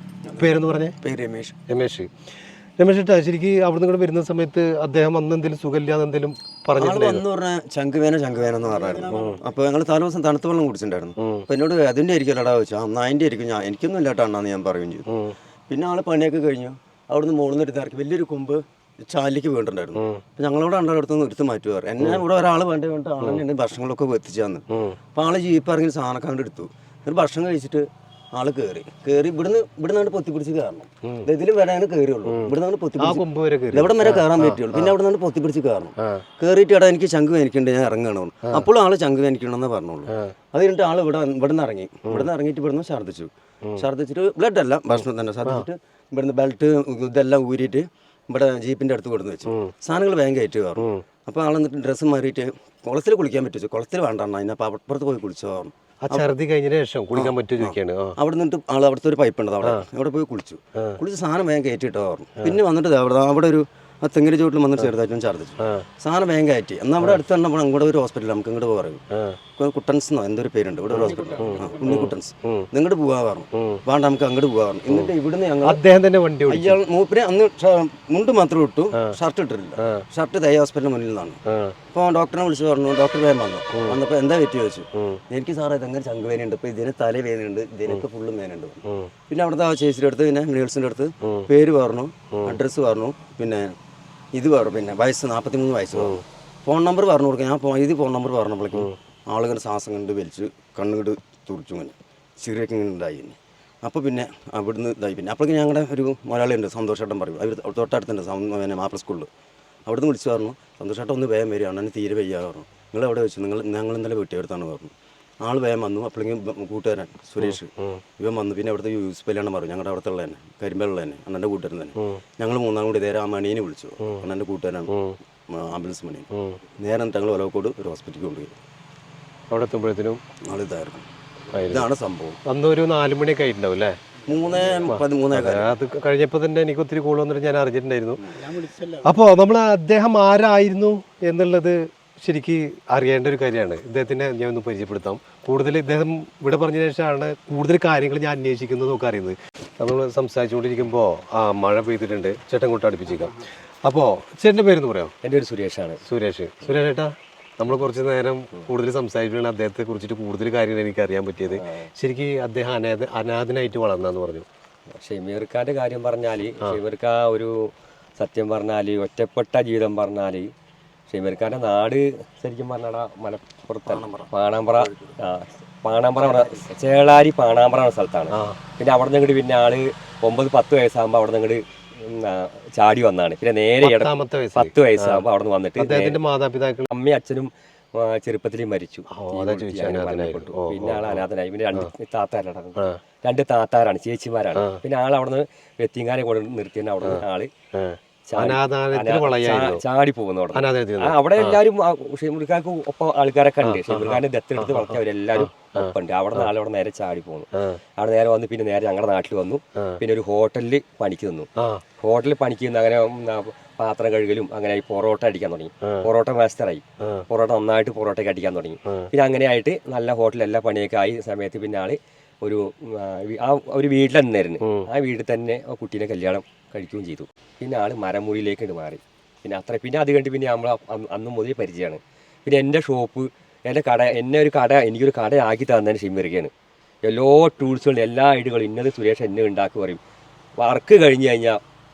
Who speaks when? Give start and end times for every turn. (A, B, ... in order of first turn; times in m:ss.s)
0:00.4-0:01.0 A
0:01.0-0:01.6 B
0:01.7-0:02.1 A
0:02.8-0:07.2 A
0:06.8-0:15.1 B
0:08.4-0:09.6 C
0:09.1-0:09.4 A
0:11.2-0:11.4 A
0:15.1-0:15.4 A
0:15.7-0:56.3 B
0:20.0-0:20.2 A
0:24.7-0:25.0 A
0:32.3-0:34.9 A
0:36.0-0:36.2 A
0:40.1-0:40.3 A
0:49.5-0:49.7 A
0:50.8-0:51.0 A
0:56.0-0:58.2 A
0:57.1-1:09.0 B
1:05.6-1:05.9 A
1:09.1-1:09.4 A
1:09.6-1:15.8 B
1:10.9-1:12.0 C
1:11.0-1:12.7 A
1:13.5-1:13.8 A
1:15.6-1:16.8 A
1:16.5-1:21.4 B
1:19.8-1:20.0 A
1:21.5-1:21.8 A
1:21.9-1:33.7 B
1:32.3-1:32.6 A
1:34.3-1:49.3 B
1:36.0-1:36.2 A
1:49.9-2:04.9 B
1:57.4-1:58.0 A
2:04.9-2:05.2 A
2:05.5-2:06.3 B
2:06.3-2:06.6 A
2:06.8-2:08.5 B
2:09.5-2:10.2 A
2:10.4-2:11.0 B
2:11.5-2:11.9 A
2:11.7-2:12.4 B
2:12.5-2:14.0 A
2:14.2-2:14.9 C
2:14.3-2:15.8 B
2:14.9-2:18.2 A
2:18.3-2:19.2 C
2:19.0-2:35.1 A
2:35.2-2:36.0 D
2:36.1-2:44.5 A
2:41.5-2:41.9 D
2:45.0-2:50.5 D
2:51.1-3:06.2 D
2:53.9-2:55.2 B
2:56.2-2:56.6 B
2:58.3-2:58.6 A
3:03.8-3:05.2 A
3:05.8-3:06.9 A
3:06.9-3:17.5 D
3:09.1-3:11.2 A
3:17.8-3:19.8 A
3:18.3-3:31.5 D
3:20.5-3:21.6 A
3:23.6-3:26.5 A
3:31.6-3:31.8 A
3:32.0-3:56.5 D
3:44.6-3:44.9 A
3:57.0-4:00.0 D
4:00.6-4:01.6 D